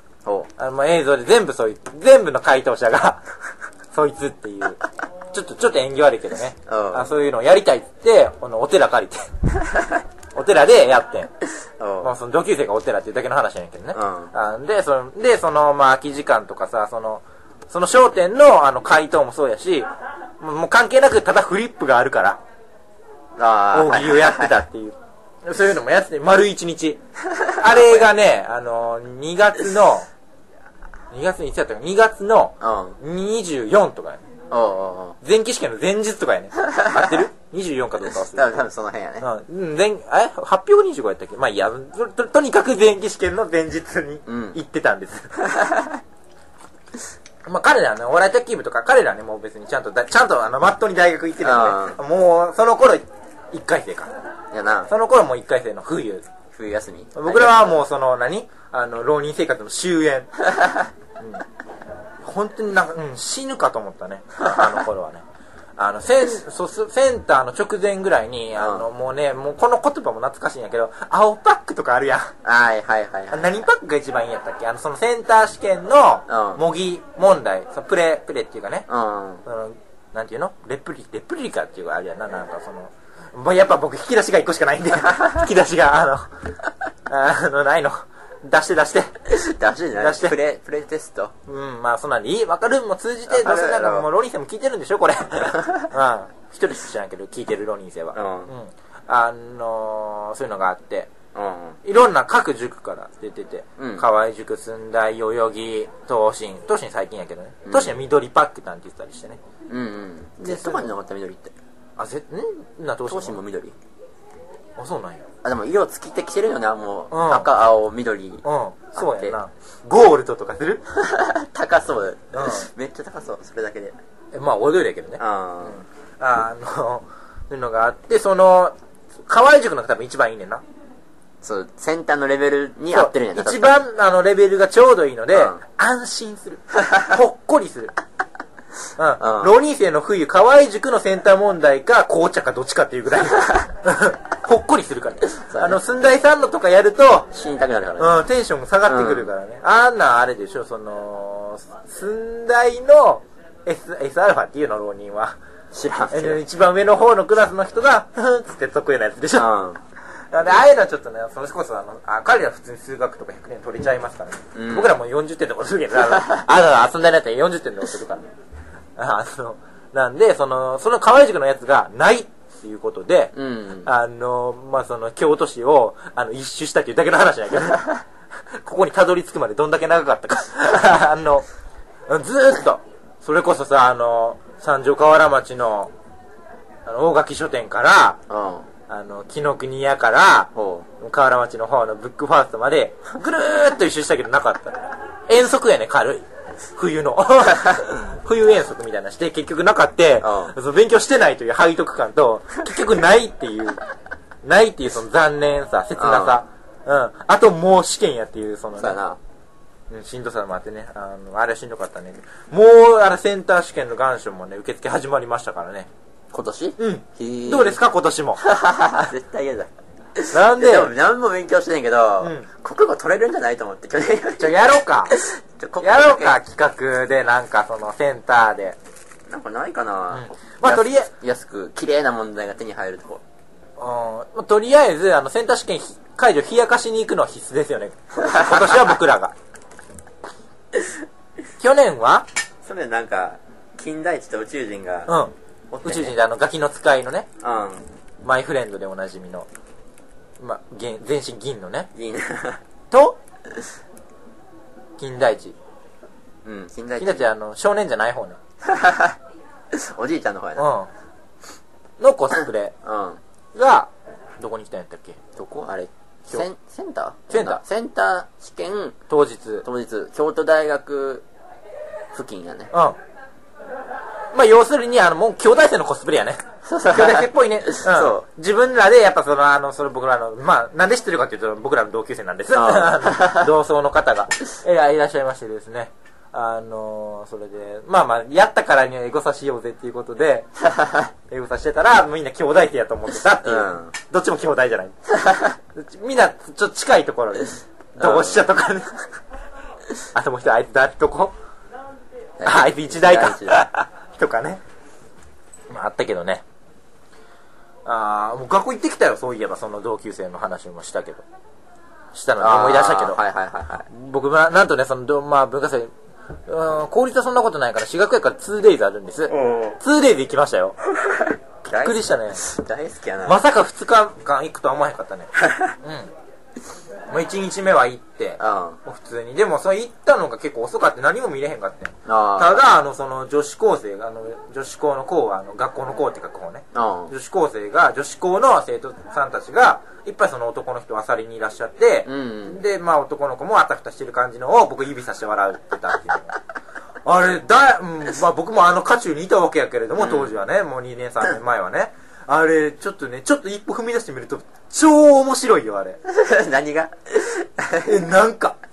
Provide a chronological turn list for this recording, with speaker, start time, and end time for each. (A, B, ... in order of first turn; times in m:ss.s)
0:00.6-0:03.2 A
0:03.9-0:09.3 A
0:06.7-0:07.1 B
0:10.3-0:11.3 A
0:11.8-0:12.1 B
0:12.0-0:19.9 A
0:13.9-0:14.3 B
0:20.4-0:22.4 A
0:23.4-0:24.5 B
0:23.7-0:30.1 A
0:27.5-0:28.1 B
0:31.1-0:34.2 A
0:32.6-0:33.0 B
0:34.5-0:35.2 B
0:35.2-0:38.6 A
0:36.8-0:37.2 B
0:38.3-0:39.3 B
0:39.2-0:45.4 A
0:44.3-0:44.6 B
0:45.4-0:46.0 B
0:47.4-0:54.1 A
0:51.4-0:52.0 B
0:54.5-0:54.9 B
0:54.9-0:56.3 A
0:56.5-0:57.8 B
0:57.1-1:00.3 A
1:01.2-1:01.4 A
1:02.2-1:05.2 A
1:05.8-1:12.4 A
1:08.6-1:08.9 B
1:12.4-1:13.5 B
1:13.3-1:18.9 A
1:16.3-1:16.6 B
1:18.9-1:19.4 B
1:19.4-1:26.3 A
1:27.1-1:29.2 A
1:29.3-1:31.3 B
1:30.0-1:30.4 A
1:31.5-1:41.1 A
1:33.3-1:34.1 B
1:38.1-1:38.5 B
1:41.3-1:41.8 B
1:41.8-1:49.4 A
1:43.8-1:44.0 B
1:47.6-1:48.0 B
1:49.7-1:51.5 B
1:50.4-1:50.9 A
1:52.0-1:53.4 A
1:53.1-1:53.7 B
1:54.8-1:55.3 A
1:55.4-1:58.4 B
1:57.1-1:57.5 A
1:58.4-2:00.8 A
1:58.9-1:59.4 B
2:00.9-2:04.0 B
2:02.3-2:02.7 A
2:04.3-2:08.7 A
2:05.2-2:05.8 B
2:09.2-2:10.6 A
2:11.4-2:13.8 B
2:12.9-2:17.9 A
2:15.3-2:15.6 B
2:19.0-2:27.3 A
2:19.2-2:19.5 B
2:25.4-2:25.8 B
2:27.3-2:28.2 B
2:28.0-2:35.4 A
2:28.8-2:29.3 B
2:35.7-2:36.4 B
2:36.1-2:39.5 A
2:39.3-2:39.8 B
2:40.3-2:48.2 A
2:44.5-2:45.0 B
2:46.1-2:46.4 B
2:49.0-2:53.3 A
2:53.3-2:53.9 B
2:53.8-2:58.0 A
2:58.5-3:01.5 A
3:02.1-3:05.9 A
3:06.8-3:08.2 A
3:08.3-3:08.7 B
3:08.9-3:14.8 A
3:10.5-3:10.9 B
3:15.3-3:23.8 A
3:20.2-3:20.5 B
3:24.4-3:29.0 A
3:26.0-3:26.4 B
3:28.8-3:29.2 B
3:29.9-3:35.9 A
3:36.3-3:37.8 B
3:36.8-3:38.4 A
3:38.4-3:44.6 B
3:40.3-3:40.9 A
3:42.2-3:42.5 A
3:44.4-3:45.2 A
3:45.1-3:46.4 B
3:45.8-3:48.8 A
3:49.3-3:53.2 B
3:50.1-3:51.1 A
3:53.8-3:59.3 A
3:58.2-3:59.0 B
4:01.6-4:02.2 A
4:02.6-4:05.1 B
4:05.1-4:05.3 A
4:05.7-4:06.1 B
4:05.8-4:07.3 A
4:07.4-4:07.8 B
4:08.2-4:09.5 A
4:10.4-4:11.9 A
4:11.9-4:12.6 B
4:12.9-4:13.2 A
4:15.0-4:15.6 A
4:16.4-4:17.2 B
4:17.0-4:18.4 A
4:18.6-4:19.2 B
4:19.7-4:20.7 B
4:20.6-4:20.9 A
4:22.0-4:22.7 A
4:22.8-4:23.2 B
4:23.5-4:25.2 A
4:25.3-4:29.0 B
4:27.3-4:27.6 A
4:29.1-4:29.6 A
4:29.6-4:31.2 B
4:32.1-4:32.7 B
4:32.7-4:33.0 A
4:34.3-4:50.5 A
4:36.6-4:38.2 B
4:42.5-4:43.5 B
4:50.7-4:51.1 B
4:51.3-4:55.0 A
4:53.4-4:53.9 B
4:55.1-4:55.6 B
4:55.7-4:59.0 A
4:58.0-4:58.5 B
5:00.1-5:01.3 A
5:02.4-5:03.6 B
5:02.4-5:04.6 A
5:05.7-5:06.4 A
5:07.8-5:11.2 A
5:12.1-5:13.2 A
5:12.4-5:13.9 B
5:13.9-5:15.9 A
5:16.5-5:20.8 A
5:19.3-5:19.8 B
5:20.9-5:23.4 B
5:21.7-5:22.4 A
5:23.2-5:26.1 A
5:25.4-5:25.7 B
5:27.1-5:46.4 A
5:28.4-5:28.8 B
5:32.0-5:32.6 B
5:36.7-5:37.1 B
5:42.0-5:42.6 B
5:47.0-5:56.0 A
5:50.0-5:50.3 B
5:56.0-5:58.0 B
5:57.8-5:58.6 A